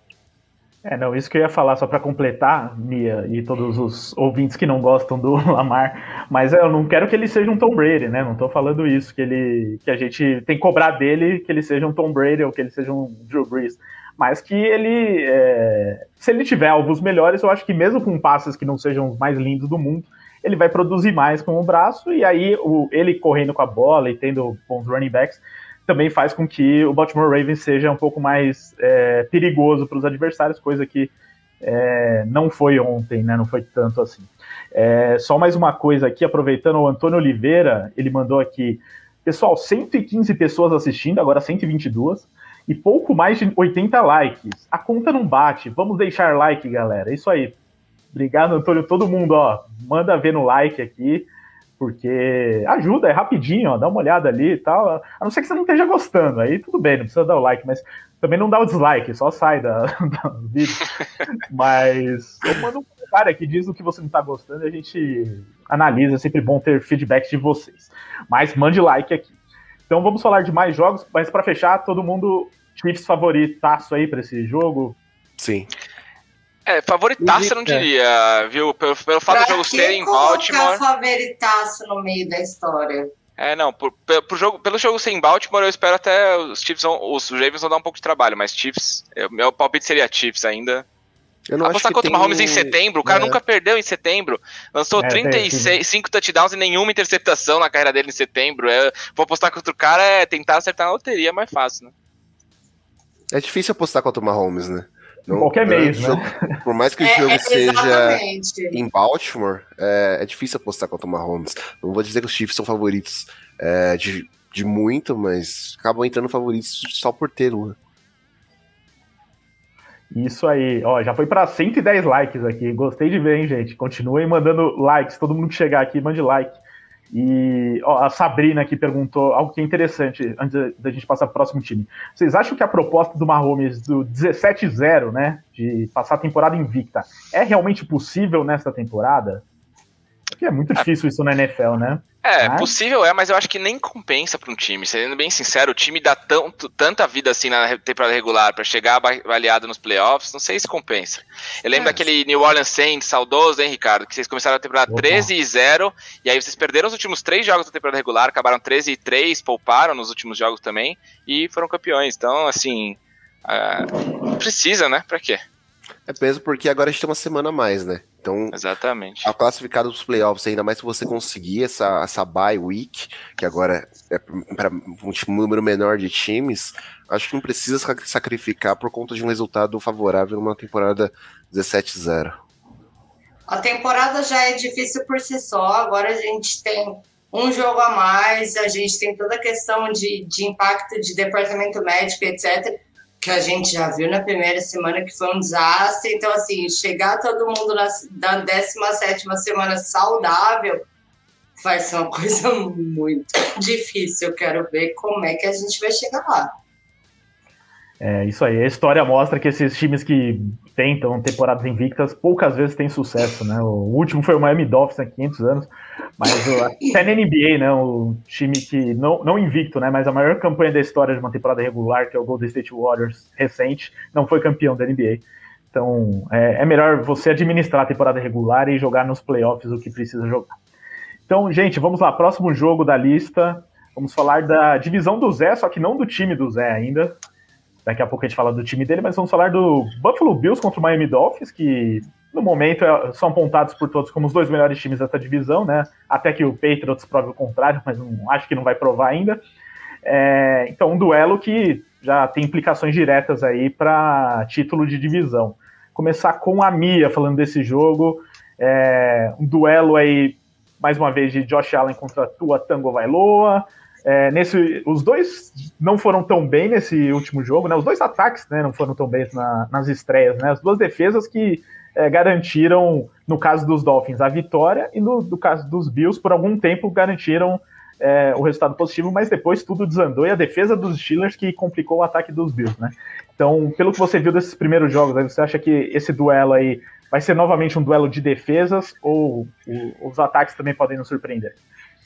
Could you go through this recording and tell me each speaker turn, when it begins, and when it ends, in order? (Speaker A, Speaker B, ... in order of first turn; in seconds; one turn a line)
Speaker A: 0.8-47.5
Speaker A: 48.1-51.3
Speaker A: 51.8-69.3
Speaker A: 69.9-75.0
Speaker B: 75.4-75.7
Speaker C: 76.7-80.8
Speaker B: 77.2-77.9
Speaker D: 79.3-83.1
Speaker C: 83.4-90.8
Speaker B: 91.5-93.4
Speaker C: 91.6-101.9
Speaker A: 95.0-95.7
Speaker B: 103.3-117.8
Speaker A: 105.3-106.3
Speaker D: 107.0-108.8
Speaker A: 120.1-126.6
Speaker A: 127.1-139.4
Speaker A: 140.4-142.7
Speaker C: 142.2-165.4
Speaker B: 151.8-152.0
Speaker A: 154.9-155.3
Speaker B: 166.1-168.6
Speaker C: 168.5-169.3
Speaker B: 169.2-182.3
Speaker D: 183.5-200.8
Speaker D: 201.6-206.5
Speaker A: 208.0-230.5
Speaker A: 231.3-237.2
Speaker A: 237.8-249.4
Speaker A: 250.0-291.6